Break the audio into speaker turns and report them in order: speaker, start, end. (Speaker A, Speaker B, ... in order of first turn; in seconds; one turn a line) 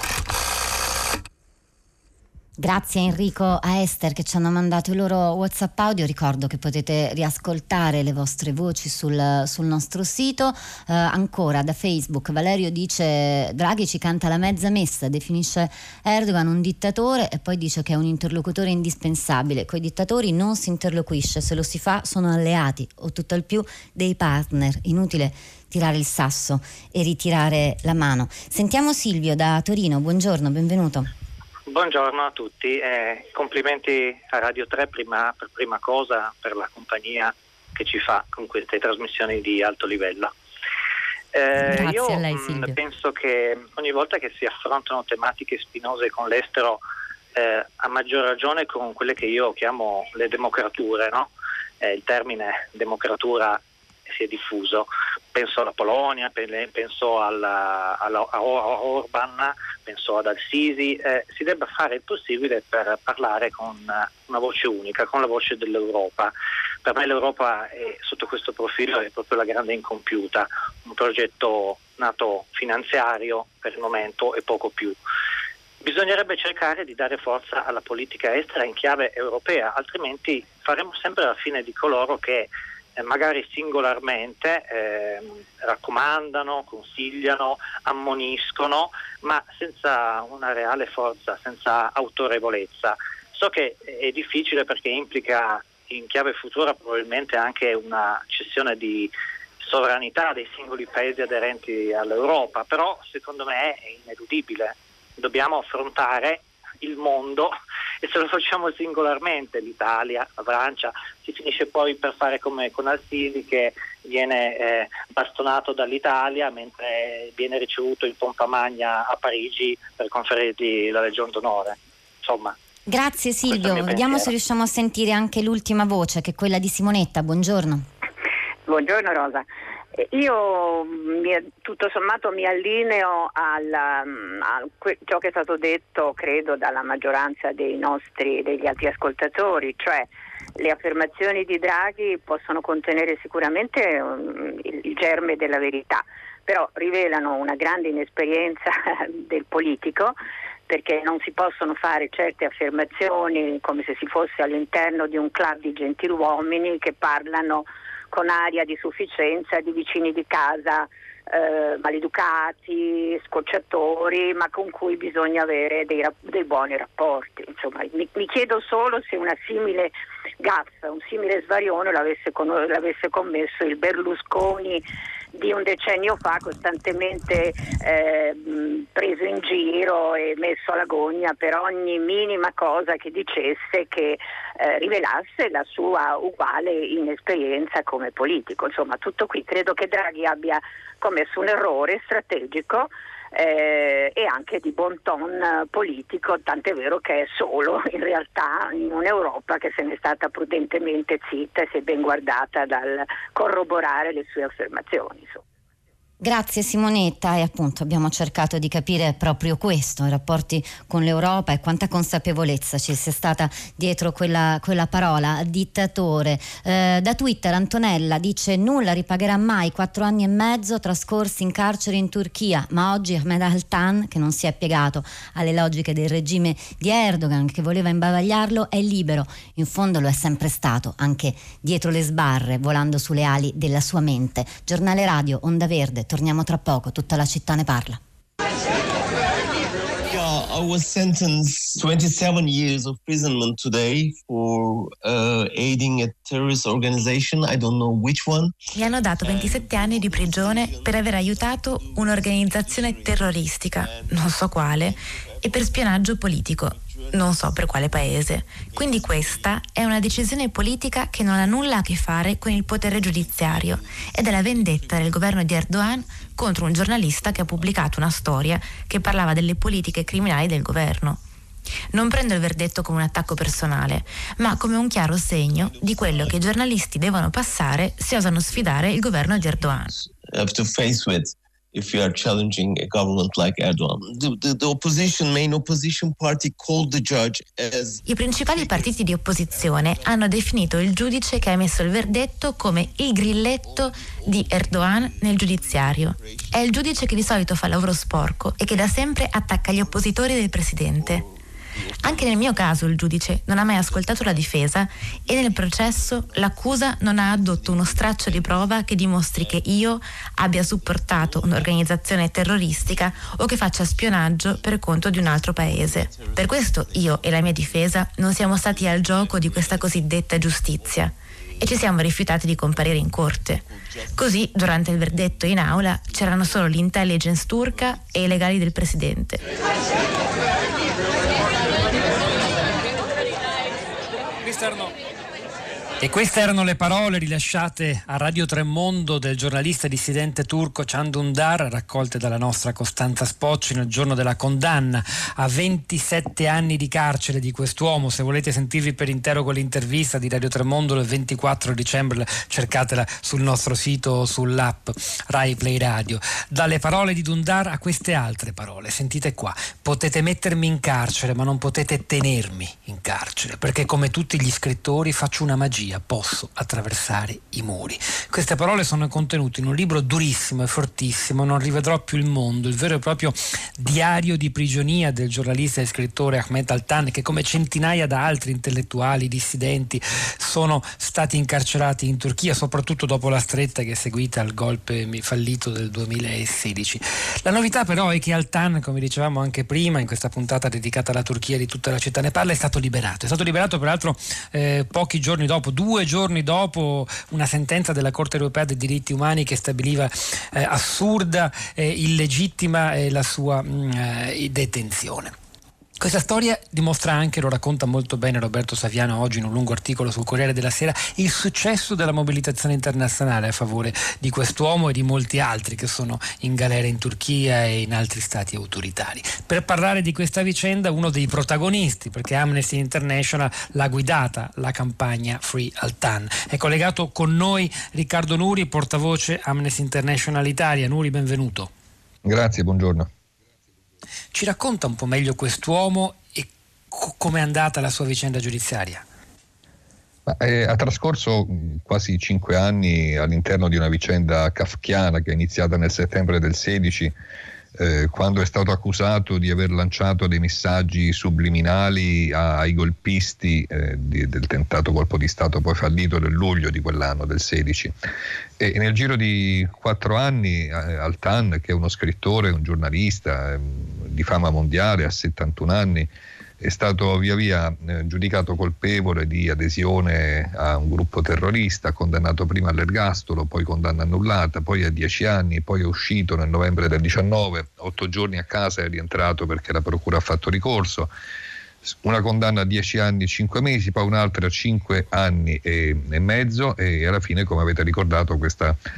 Speaker A: 2.6-31.1
Speaker B: 31.7-40.3
Speaker B: 41.3-46.8
Speaker B: 47.3-51.3
Speaker B: 51.8-66.3
Speaker B: 66.8-75.0
Speaker B: 75.8-122.5
Speaker A: 122.9-127.9
Speaker B: 123.5-124.3
Speaker C: 128.7-150.2
Speaker C: 150.7-205.4
Speaker A: 206.2-238.0
Speaker D: 240.1-255.9
Speaker E: 248.8-271.2
Speaker D: 256.7-257.4
Speaker D: 258.6-260.3
Speaker D: 261.3-261.6
Speaker D: 262.6-269.1
Speaker E: 271.9-279.9
Speaker D: 274.0-274.7
Speaker D: 275.5-276.7
Speaker D: 277.3-291.2
Speaker E: 288.1-301.2
Speaker D: 292.0-297.6
Speaker D: 299.8-303.0
Speaker E: 302.0-323.6
Speaker D: 303.6-308.8
Speaker D: 309.3-309.6
Speaker D: 310.7-311.9
Speaker D: 312.8-313.4
Speaker D: 314.0-322.0
Speaker D: 322.6-326.8
Speaker E: 324.1-329.4
Speaker D: 327.5-332.9
Speaker F: 334.4-334.9
Speaker F: 336.0-405.3
Speaker F: 406.0-431.7
Speaker G: 432.2-433.1
Speaker F: 434.3-439.0
Speaker G: 440.3-447.1
Speaker G: 447.8-457.9
Speaker G: 458.6-466.1
Speaker G: 466.6-481.1
Speaker G: 481.8-488.8